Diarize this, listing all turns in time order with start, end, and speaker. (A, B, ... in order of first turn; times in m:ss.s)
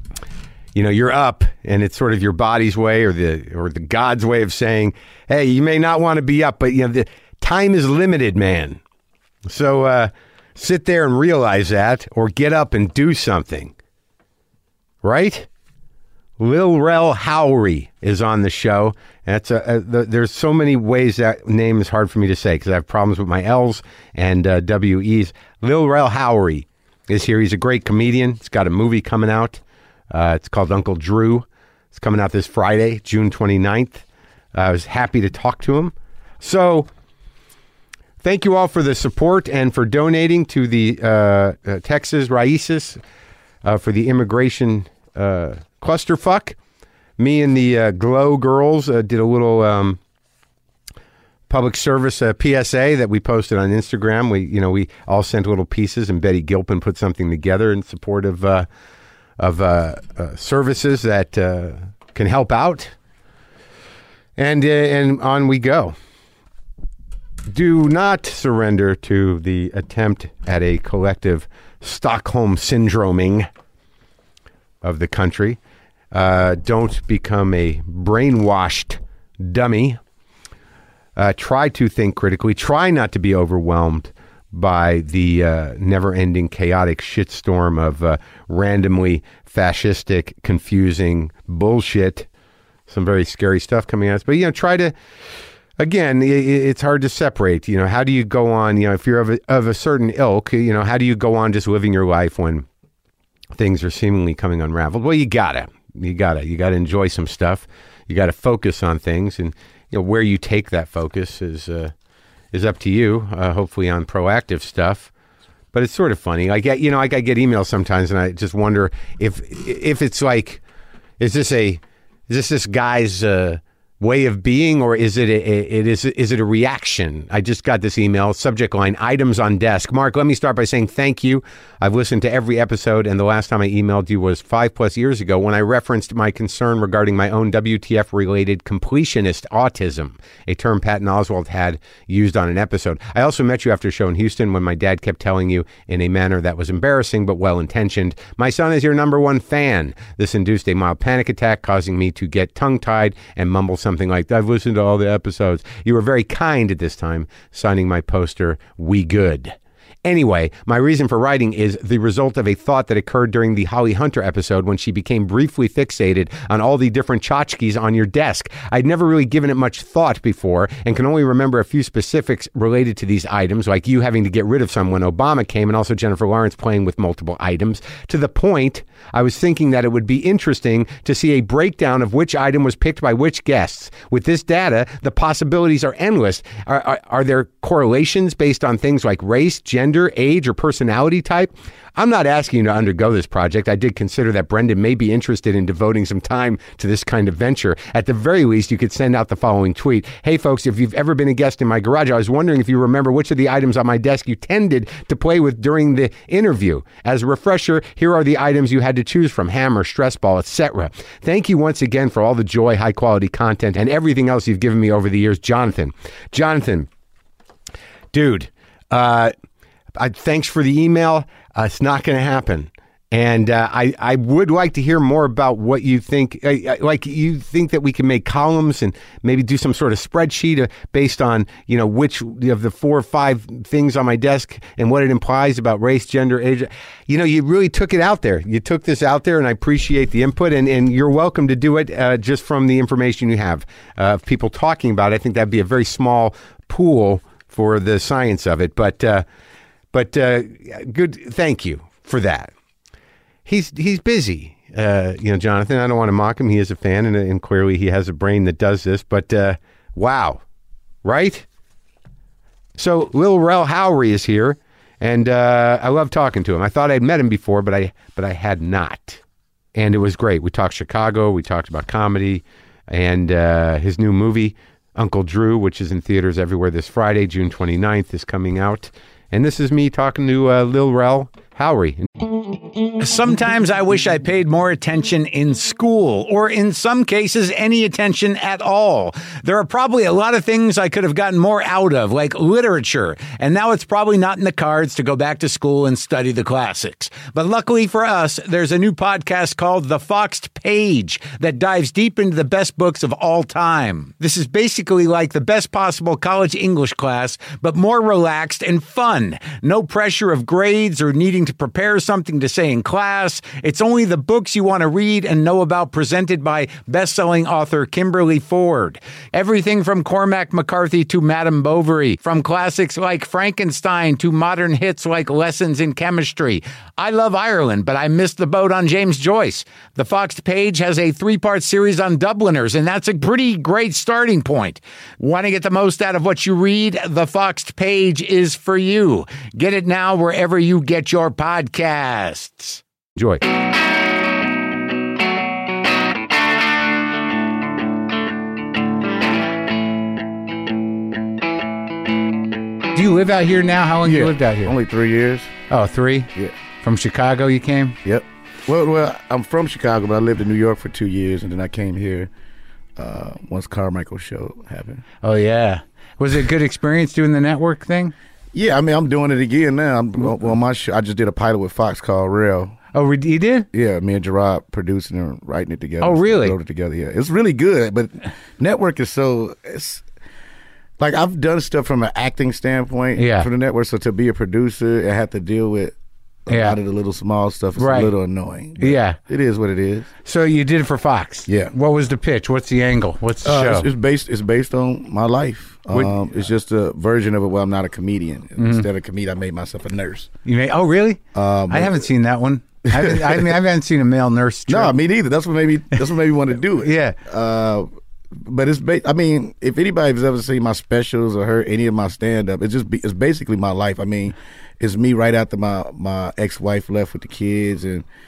0:00.8-0:08.8 A
0:09.5-0:13.7 A
0:15.0-0:15.5 A
0:16.4-0:36.9 A
0:38.2-0:43.0 A
0:43.6-0:46.6 A
0:47.2-0:50.0 A
0:51.5-0:58.7 A
0:59.4-1:02.9 A
1:04.4-1:06.0 A
1:07.5-1:13.5 A
1:14.8-1:15.6 A
1:16.1-1:20.0 A
1:21.2-1:32.3 A
1:32.9-1:34.9 A
1:35.8-1:42.7 A
1:43.5-1:51.9 A
1:52.5-1:55.1 A
1:55.7-2:00.6 A
2:01.2-3:36.9 A
3:38.1-3:39.3 A
3:40.0-4:09.2 A
4:09.9-4:12.5 A
4:13.5-4:20.4 A
4:21.0-4:21.5 A
4:22.8-4:29.2 A
4:29.8-4:42.1 A
4:42.9-5:42.8 B
5:43.2-5:43.4 A
5:52.9-5:54.8 B
5:54.0-5:55.5 C
5:55.7-5:58.0 B
5:58.0-6:02.3 C
6:03.0-6:05.0 C
6:05.2-6:08.1 B
6:08.5-6:12.8 C
6:12.9-6:13.7 B
6:13.7-6:20.0 C
6:16.0-6:16.6 B
6:21.0-6:26.0 C
6:23.2-6:23.5 B
6:26.5-6:30.1 C
6:26.5-6:26.8 B
6:27.8-6:28.1 B
6:28.8-6:29.2 B
6:30.2-6:33.9 B
6:31.5-6:31.7 C
6:33.4-6:40.3 C
6:38.6-6:38.9 B
6:40.4-6:45.0 B
6:41.3-6:42.0 C
6:42.9-6:43.6 C
6:44.7-6:58.0 C
6:46.8-6:47.2 B